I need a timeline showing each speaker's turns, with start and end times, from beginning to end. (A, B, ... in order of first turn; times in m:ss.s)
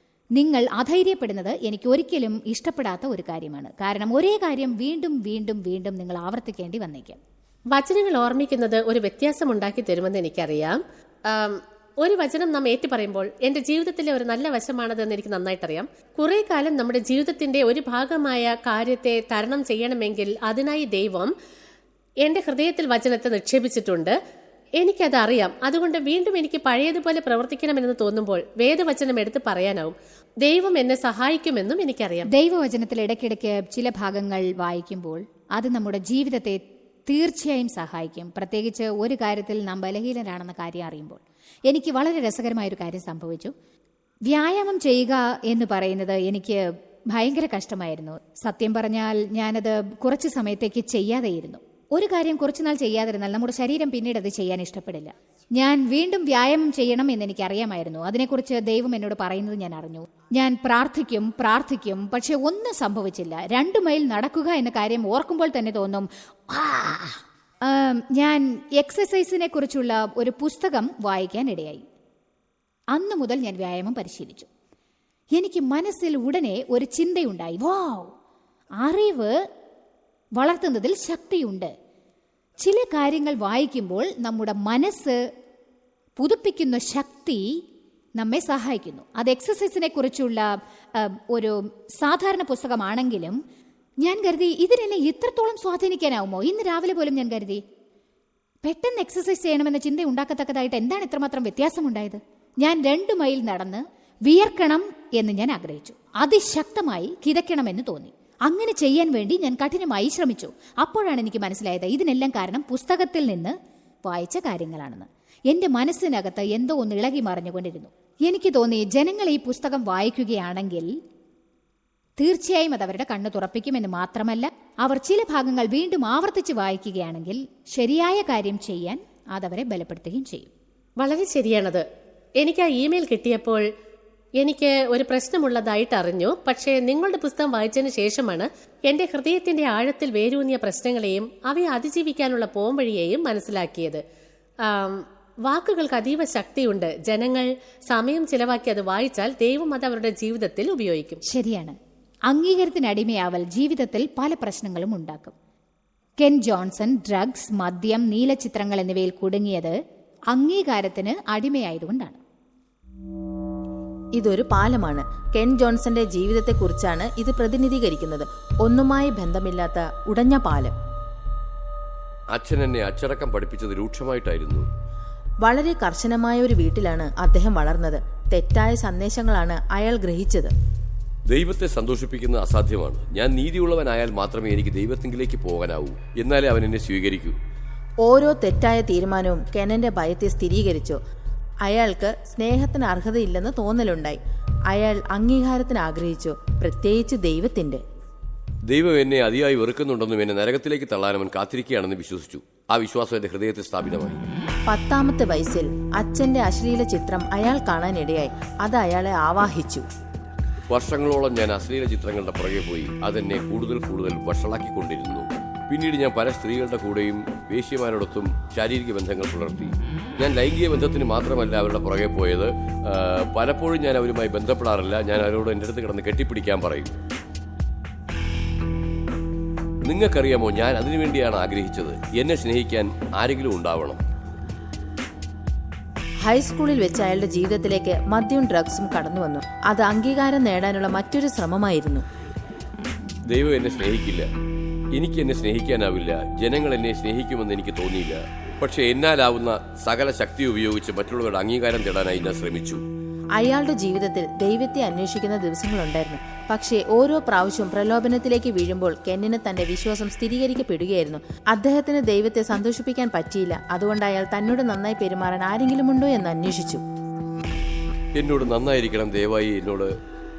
0:00.4-0:07.2 A
0:07.7-0:21.3 B
0:22.2-0:24.2 B
0:24.8-0:32.3 B
0:32.3-0:43.5 A
0:44.3-1:11.8 A
1:12.9-1:14.5 A
1:15.4-1:18.1 A
1:18.8-1:19.3 A
1:20.4-1:21.7 A
1:22.6-1:25.2 A
1:26.2-1:27.6 A
1:28.2-1:33.4 A
1:34.0-1:37.6 A
1:38.6-2:01.0 A
2:02.2-2:10.5 A
2:11.0-2:11.8 B
2:12.4-2:13.6 B
2:14.4-2:24.0 B
2:24.6-2:31.2 B
2:31.2-2:31.8 A
2:32.3-2:35.4 A
2:36.2-2:39.8 A
2:40.3-2:42.2 A
2:44.2-2:50.7 C
2:52.3-2:54.6 D
2:55.4-3:00.5 C
3:01.3-3:07.4 D
3:08.0-3:11.0 C
3:11.6-3:17.8 C
3:18.7-3:24.2 D
3:24.7-3:29.9 C
3:30.7-3:46.9 D
3:49.9-3:54.0 D
3:56.2-4:02.0 C
4:03.3-4:04.3 D
4:04.9-4:12.8 D
4:13.4-4:26.8 C
4:28.2-4:29.9 D